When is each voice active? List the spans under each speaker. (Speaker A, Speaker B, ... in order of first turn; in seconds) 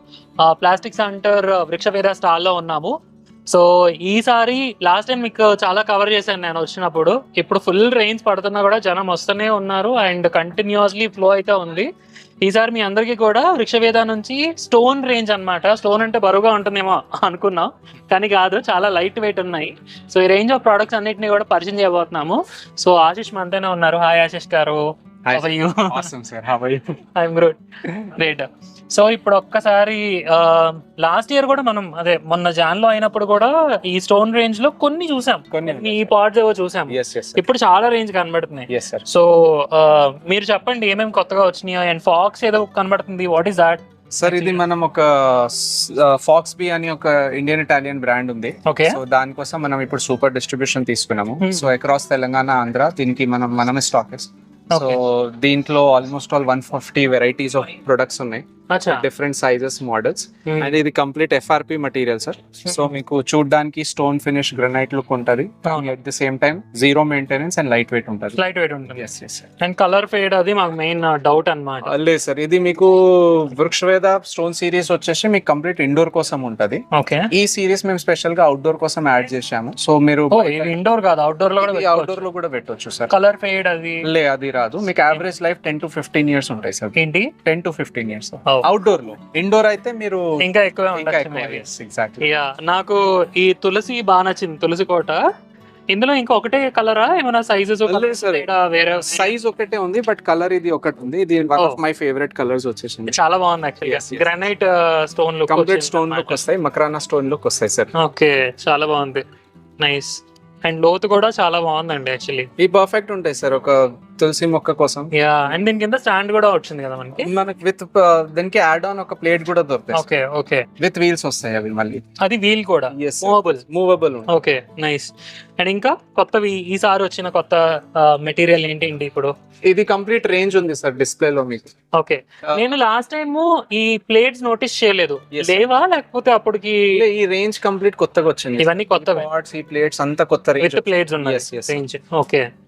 Speaker A: 0.4-2.9, 3.5-11.9, 12.4-24.8, 25.3-26.1, 27.1-44.6, 48.6-49.0, 51.4-51.7, 54.7-55.0, 58.7-59.0, 60.5-60.7, 68.4-69.0, 69.6-71.9, 76.9-77.3, 80.3-82.2, 83.1-84.0, 87.0-87.3, 90.4-91.6, 92.2-95.2, 95.9-99.3, 103.1-106.4, 108.0-109.2, 109.8-112.5, 115.1-117.3, 119.9-120.7, 122.2-123.6, 124.3-129.3, 131.9-137.0, 138.6-139.2, 140.6-142.4
Speaker B: 25.2-26.9, 35.5-36.1, 36.9-37.4, 38.7-39.0, 44.1-68.4, 68.9-69.5, 71.8-80.8, 81.6-83.1, 84.1-90.2, 90.9-92.3, 97.9-98.5, 99.0-103.2, 103.8-104.3, 105.5-107.9, 112.6-115.1, 117.2-120.0, 120.8-122.0, 122.9-124.4, 129.7-131.7, 135.3-135.6, 136.9-141.8